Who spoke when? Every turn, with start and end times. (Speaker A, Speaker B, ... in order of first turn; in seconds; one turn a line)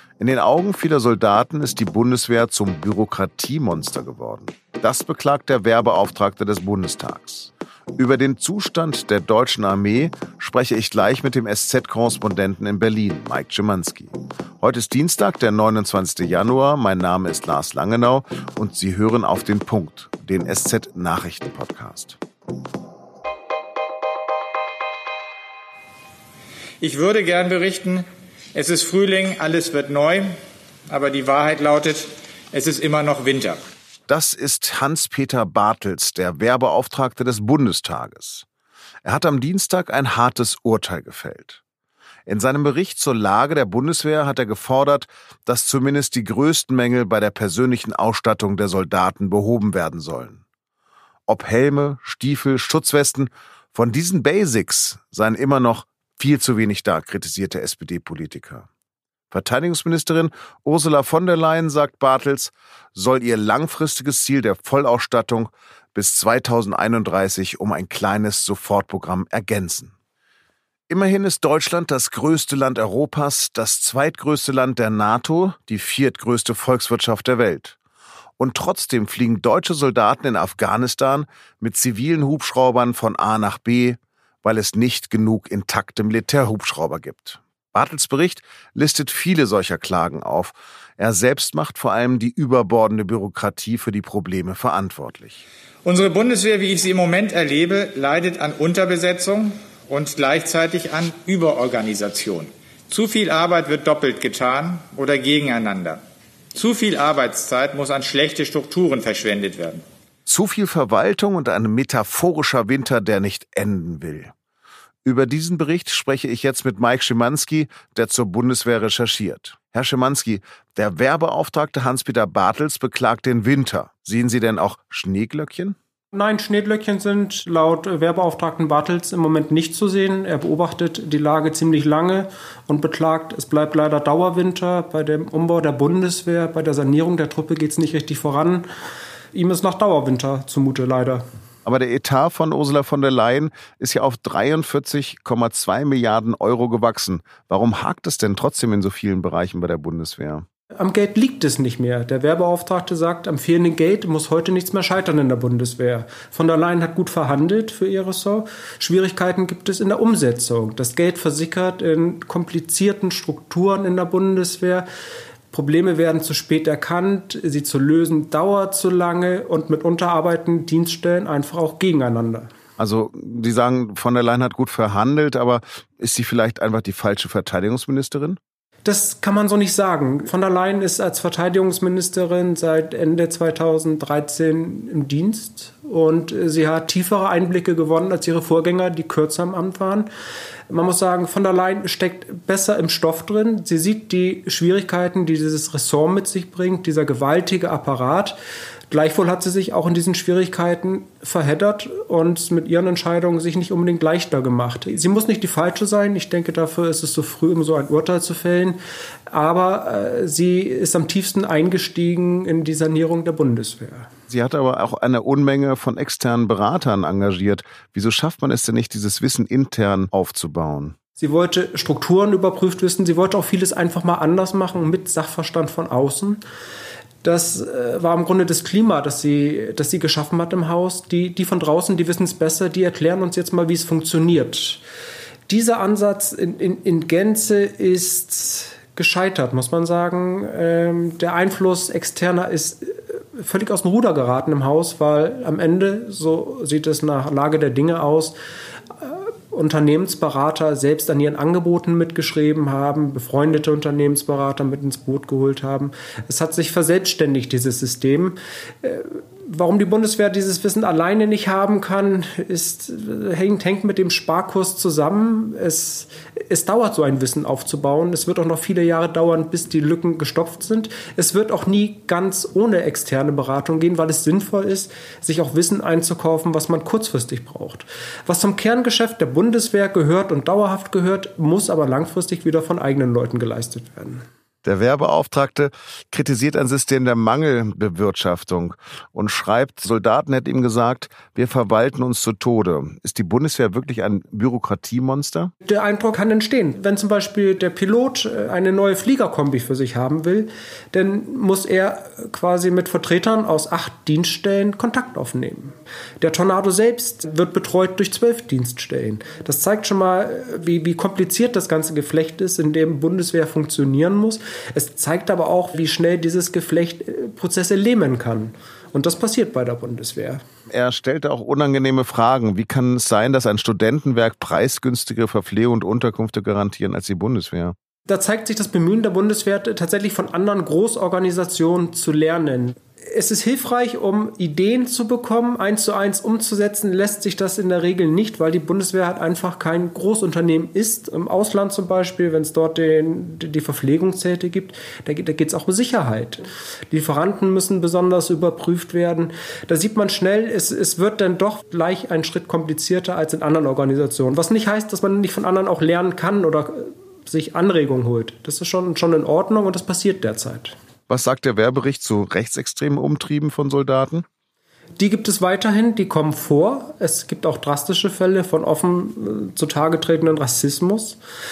Speaker A: 0.2-22.2
Speaker B: 26.8-30.3
Speaker B: 30.9-33.6
Speaker A: 34.1-38.5
Speaker A: 39.0-41.6
Speaker A: 42.3-50.4
Speaker A: 51.3-58.7
Speaker A: 59.3-69.9
Speaker A: 70.9-77.8
Speaker A: 78.4-95.4
Speaker B: 95.8-106.0
Speaker B: 106.5-109.8
Speaker A: 110.3-114.3
Speaker A: 115.0-125.8
Speaker C: 126.1-138.7
Speaker C: 139.3-141.2
Speaker A: 141.7-150.4
Speaker C: 150.8-164.8
Speaker C: 165.5-172.5
Speaker A: 172.8-178.4
Speaker C: 178.8-190.1
Speaker C: 190.7-198.4
Speaker C: 198.9-208.8
Speaker C: 209.3-214.1
Speaker A: 214.3-220.9
Speaker C: 221.2-226.4
Speaker C: 227.2-234.8
Speaker C: 235.5-248.3
Speaker C: 249.0-284.2
Speaker A: 284.6-295.5
Speaker C: 295.6-320.4
Speaker A: 320.7-327.8
Speaker C: 328.1-360.8
Speaker A: 361.1-364.2
Speaker C: 365.0-371.2